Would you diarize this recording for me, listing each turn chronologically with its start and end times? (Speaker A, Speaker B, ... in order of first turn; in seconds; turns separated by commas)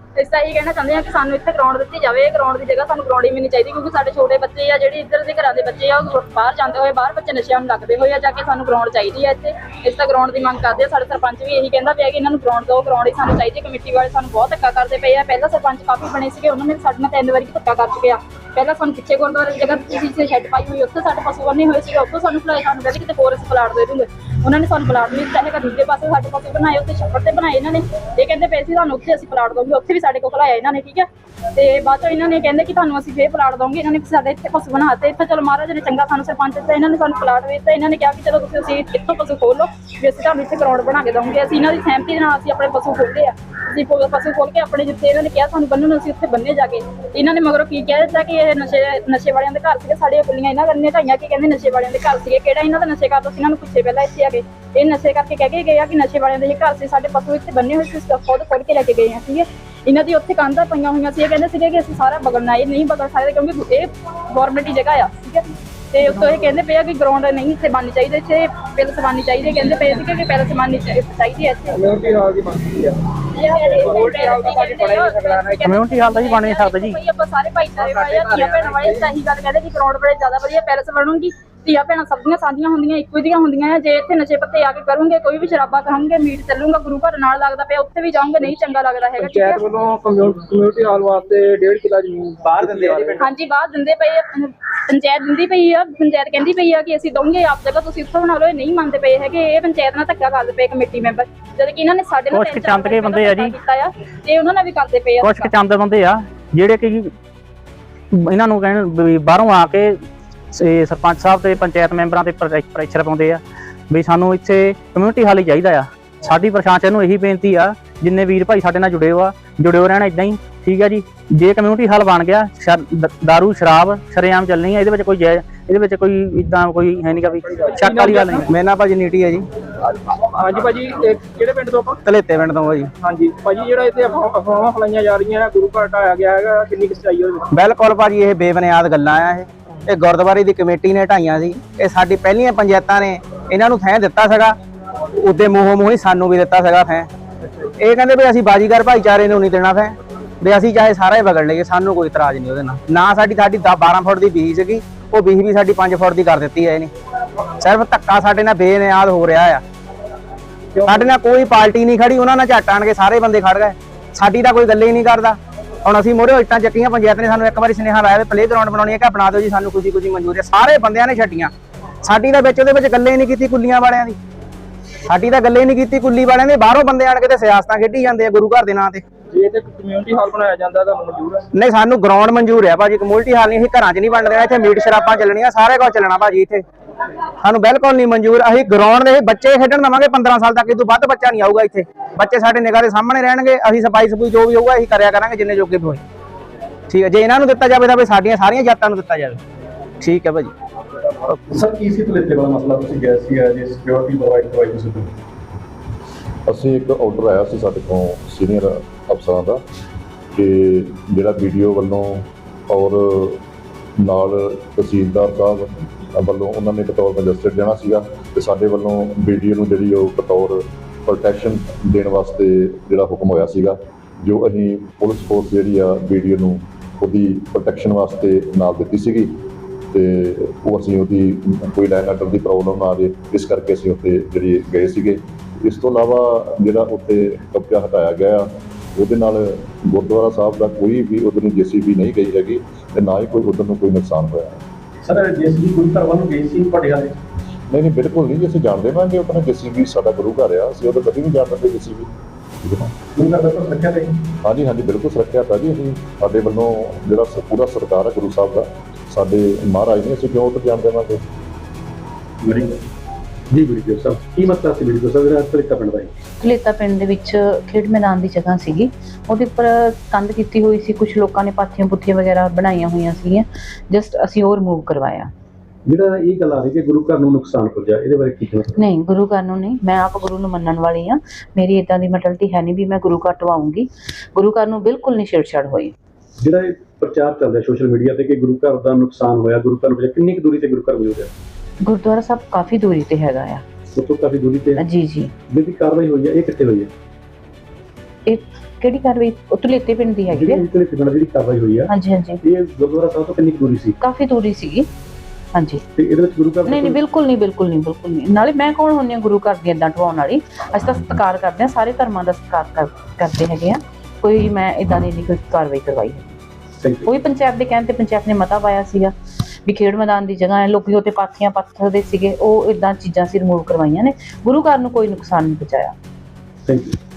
Speaker A: 0.1-71.8, Speaker B: 71.8-73.0, Speaker A: 73.3-89.6, Speaker B: 73.6-75.7, Speaker C: 75.6-77.0, Speaker B: 77.8-79.0, Speaker B: 89.2-93.2, Speaker A: 93.2-105.5, Speaker C: 102.3-103.5, Speaker C: 105.2-107.1, Speaker C: 108.1-109.9, Speaker C: 110.5-128.5, Speaker B: 127.4-128.5, Speaker D: 128.5-129.4, Speaker B: 129.9-132.0, Speaker D: 132.1-132.9, Speaker B: 133.0-137.5, Speaker D: 137.5-144.6, Speaker D: 145.2-147.1, Speaker D: 147.8-156.9, Speaker D: 157.6-159.6, Speaker B: 160.8-161.1, Speaker D: 160.8-171.5, Speaker D: 172.0-174.2, Speaker D: 175.1-179.0, Speaker B: 179.3-181.4, Speaker D: 181.5-186.6, Speaker D: 187.4-196.0, Speaker D: 196.9-199.4, Speaker D: 200.0-200.5, Speaker E: 201.5-205.1, Speaker F: 206.5-209.6, Speaker F: 210.3-213.4, Speaker F: 214.0-229.3, Speaker F: 229.9-244.6, Speaker E: 245.1-247.2, Speaker F: 247.7-252.1, Speaker F: 252.6-252.9, Speaker E: 253.2-254.1, Speaker F: 254.4-261.2, Speaker E: 263.5-266.1, Speaker G: 266.4-275.3, Speaker E: 275.9-278.7, Speaker G: 278.8-285.9, Speaker E: 286.4-291.3, Speaker G: 291.8-293.6, Speaker E: 294.0-294.8, Speaker G: 294.8-295.3, Speaker E: 295.5-296.9, Speaker G: 298.3-300.7, Speaker E: 300.4-301.8, Speaker G: 301.9-302.4, Speaker E: 302.5-303.9, Speaker G: 304.0-304.9, Speaker G: 305.5-305.8, Speaker E: 306.0-306.9, Speaker G: 306.7-316.3, Speaker G: 317.1-326.0